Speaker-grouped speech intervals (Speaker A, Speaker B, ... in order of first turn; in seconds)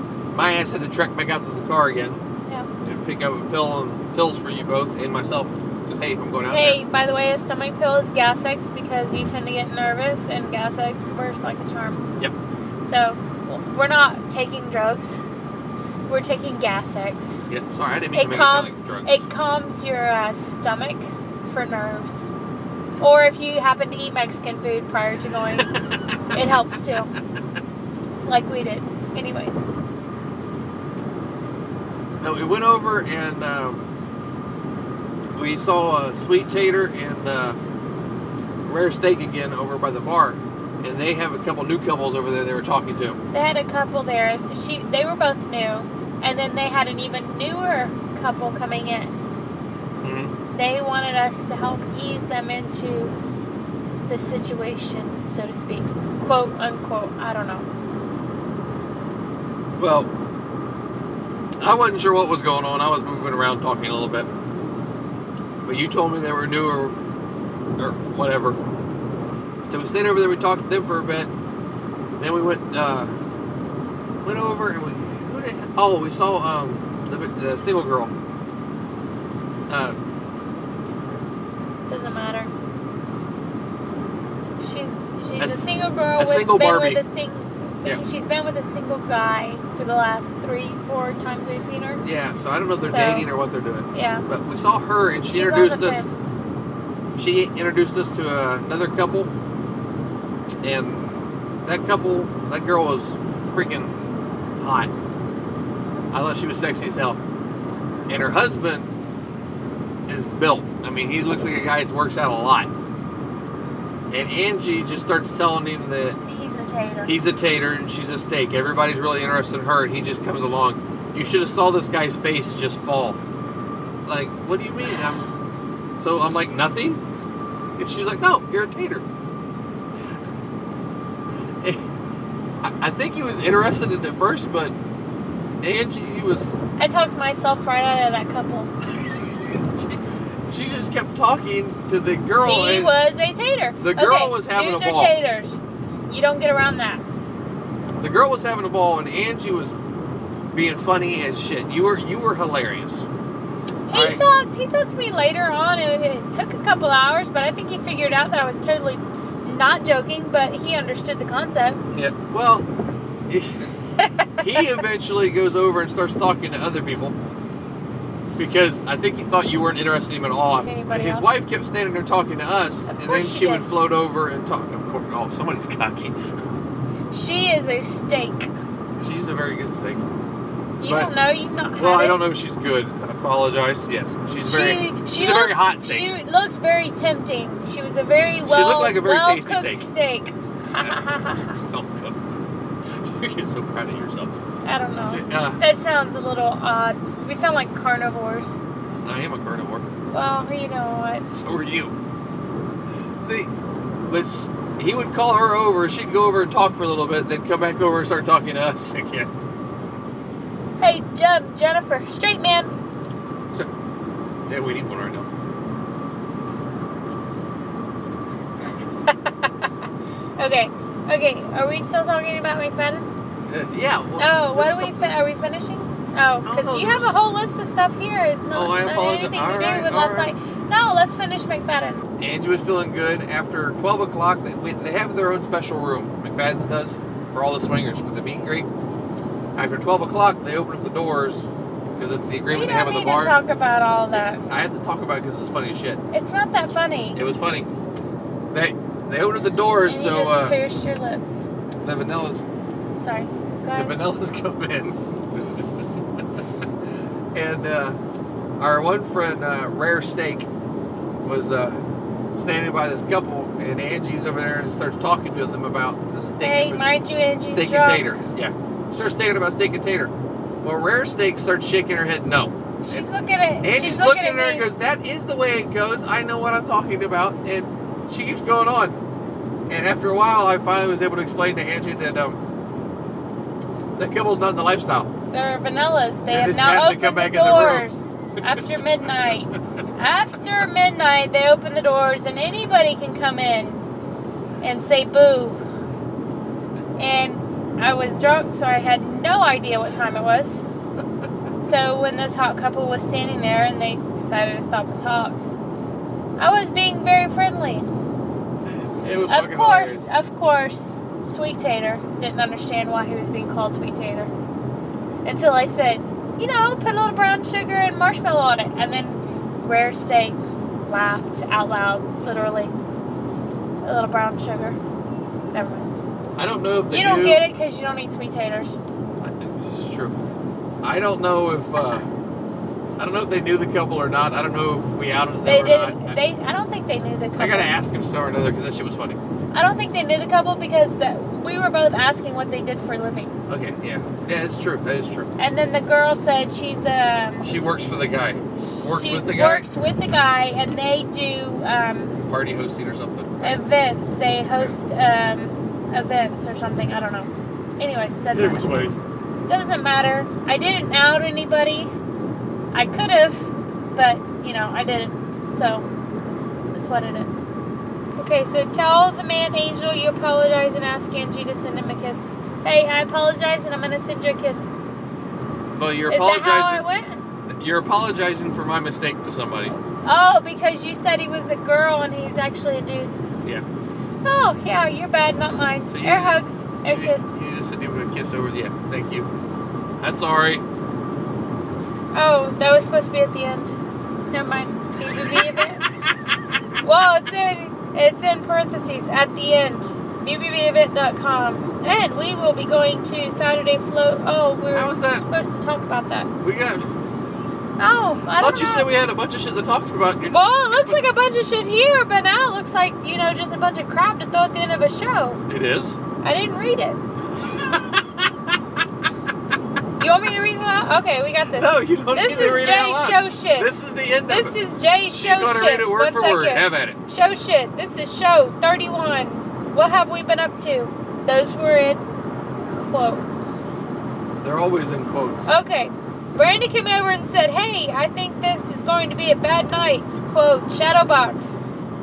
Speaker A: 0.3-2.2, 2.8-6.8, 17.5-19.2, 32.2-33.9, 35.3-37.6, 38.6-43.2, 50.0-50.3, 59.7-60.1, 61.6-64.3, 65.6-67.0, 67.8-68.6, 69.7-71.3, 72.2-73.1, 74.2-78.1, 79.7-80.0, 85.4-87.0, 92.0-96.1, 97.2-99.3, 100.6-104.9, 106.1-107.2, 108.1-108.9, 110.1-112.7, 114.1-116.2, 117.0-123.2, 124.1-125.3, 126.0-127.0, 127.8-129.1, 131.6-131.9, 132.6-134.8, 135.6-136.6, 138.8-142.9, 143.8-145.2, 148.0-149.8, 150.5-153.1, 153.9-154.2, 161.9-162.7, 163.3-163.7, 164.4-167.2, 168.4-176.6, 179.0-180.1, 180.8-181.1, 181.8-186.1, 188.4-189.9, 190.8-191.1, 191.6-192.4, 192.9-194.4, 195.1-195.6, 199.0-199.8, 201.3-201.9, 203.2-203.5, 204.1-209.3, 214.5-215.3, 223.5-225.2, 226.4-227.2, 228.5-230.3, 232.2-238.7, 239.6-243.4, 244.1-246.0, 247.2-247.7, 248.5-250.6, 251.8-252.4, 253.8-255.8, 257.3-258.0, 258.6-260.5, 261.2-261.8, 262.4-266.9, 267.4-273.1, 273.6-279.0, 279.7-282.4, 284.0-285.1, 286.3-287.9, 308.7-310.1, 326.4-327.4, 329.2-330.2, 330.8-332.1, 333.0-336.2, 337.4-339.2, 343.5-345.3, 347.4-349.7, 352.3-353.6, 358.3-359.0, 375.7-376.8, 377.5-379.7, 385.9-389.3, 390.0-390.6, 404.7-405.2, 406.4-406.9, 408.4-411.0, 415.5-416.0, 417.4-418.3, 421.5-424.6, 425.1-427.0, 434.4-435.5
Speaker B: 6.5-12.1, 12.8-15.2, 16.1-17.4, 18.1-22.2, 23.0-25.7, 26.3-27.1, 28.2-29.7, 43.3-49.2, 50.5-53.1, 54.1-57.7, 81.9-82.5, 84.6-92.0, 92.8-93.3, 93.9-94.2, 95.3-96.3, 116.2-117.2, 136.8-138.7, 142.4-147.0, 153.9-161.8, 164.0-164.6, 170.6-171.3, 172.9-173.7, 177.1-178.5, 180.8-182.2, 184.4-191.6, 194.6-198.6, 200.1-201.3, 210.8-212.7, 219.1-219.5, 220.4-223.1, 224.2-232.1, 242.5-244.4, 246.1-247.2, 249.8-251.4, 253.0-254.0, 266.4-268.2, 272.8-274.7, 285.3-293.9, 294.6-295.6, 297.0-300.6, 301.6-305.4, 306.4-307.9, 309.3-314.3, 315.2-322.7, 323.8-324.8, 325.5-325.9, 326.9-328.8, 335.4-337.7, 339.5-343.3, 345.4-347.5, 348.6-352.2, 353.4-358.7, 359.5-361.9, 362.7-365.9, 366.7-367.4, 368.2-374.7, 376.1-377.2, 379.7-383.2, 384.2-387.4, 392.1-393.7, 394.3-395.8, 396.8-406.3, 407.8-408.9, 410.3-415.4, 416.2-417.0, 420.0-423.7, 424.3-432.0, 432.7-433.3, 435.5-441.6